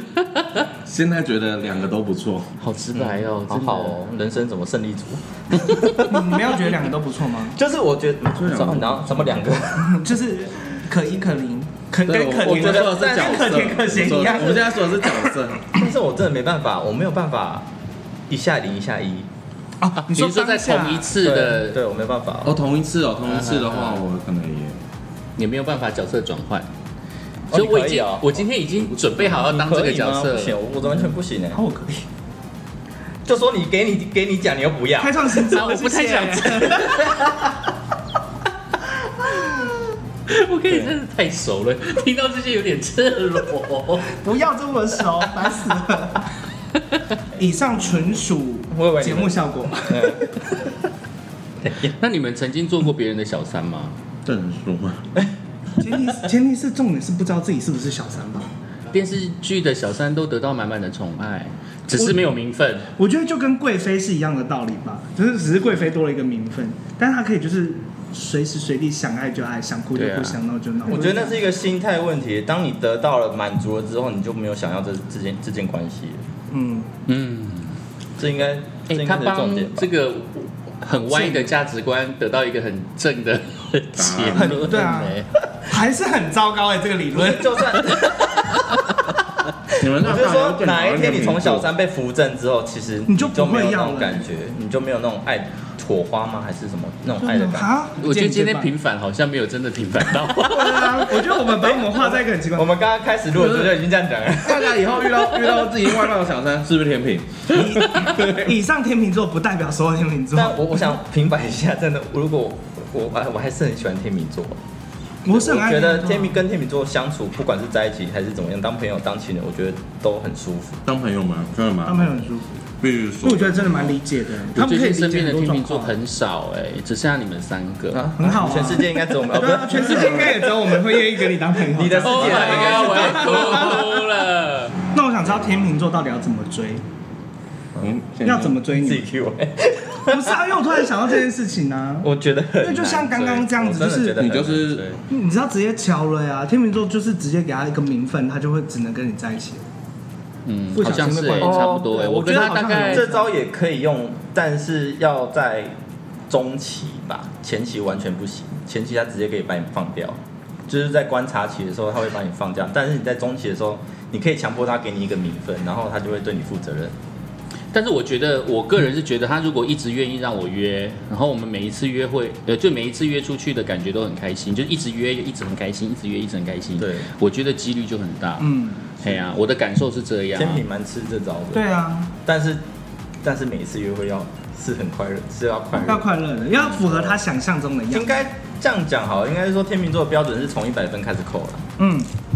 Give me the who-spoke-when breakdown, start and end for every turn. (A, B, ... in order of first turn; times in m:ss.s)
0:00.8-0:02.5 A
0:02.6-0:04.0 B
0:02.9-0:06.5 C
0:06.0-0:07.6 D
0:07.5-0:10.0 C
0:08.3-0:09.5 A
0:09.8-0:15.3 D
0:12.0-0:15.7 A
0:12.4-0:13.8 C
0:15.7-0:17.7 C
0:18.3-0:19.3 C
0:19.8-0:21.1 D
0:20.0-0:21.8 B
0:21.2-0:22.5 C
0:22.4-0:24.8 A
0:23.3-0:24.0 B
0:25.4-0:26.7 B
0:27.5-0:28.4 C
0:27.5-0:30.6 B
0:29.2-0:31.6 C
0:31.5-0:32.0 D
0:33.2-0:35.6 C
0:35.0-0:37.1 D
0:35.4-0:37.2 B
0:36.8-0:37.5 C
0:40.3-0:44.0 B
0:44.0-0:46.3 D
0:47.3-0:50.3 D
0:48.7-0:50.7 C
0:51.6-0:51.9 C
0:52.0-0:53.9 B
0:54.2-0:55.0 A
0:55.8-0:58.5 D
0:58.9-1:02.9 B
1:01.9-1:02.2 D
1:03.0-1:11.4 D
1:09.9-1:10.4 B
1:10.9-1:16.2 C
1:16.5-1:16.9 D
1:17.1-1:17.8 B
1:18.2-1:19.9 C
1:18.9-1:25.3 B
1:21.0-1:21.5 D
1:23.9-1:24.8 A
1:24.4-1:27.8 D
1:27.1-1:28.3 C
1:29.8-1:31.7 A
1:29.9-1:37.7 C
1:33.1-1:34.2 D
1:37.2-1:38.7 D
1:38.0-1:41.1 B
1:40.4-1:42.7 D
1:41.6-1:44.8 C
1:43.4-1:43.7 A
1:44.4-1:48.5 A
1:47.5-1:50.6 D
1:50.3-1:54.6 C
1:55.2-1:56.4 D
1:55.2-2:00.8 C
2:00.8-2:02.1 A
2:01.8-2:02.6 D
2:02.8-2:04.0 A
2:03.2-2:06.0 D
2:04.5-2:08.1 B
2:08.2-2:13.9 D
2:08.2-2:11.2 C
2:11.7-2:14.1 C
2:12.0-2:14.7 B
2:14.9-2:16.8 D
2:17.8-2:18.6 A
2:18.2-2:19.0 D
2:18.7-2:20.9 C
2:20.1-2:22.1 D
2:22.0-2:25.0 C
2:22.6-2:24.2 D
2:24.2-2:24.9 A
2:25.1-2:29.6 D
2:30.4-2:33.1 B
2:30.7-2:33.3 D
2:31.4-2:31.9 C
2:32.8-2:35.8 C
2:36.3-2:46.9 C
2:47.7-2:58.5 B
2:56.8-2:57.1 C
2:58.4-2:58.9 D
2:59.0-3:00.6 B
3:00.3-3:01.6 C
3:01.5-3:02.1 D
3:02.2-3:02.6 C
3:03.2-3:07.2 C
3:05.7-3:08.2 D
3:07.9-3:11.7 C
3:11.8-3:12.1 D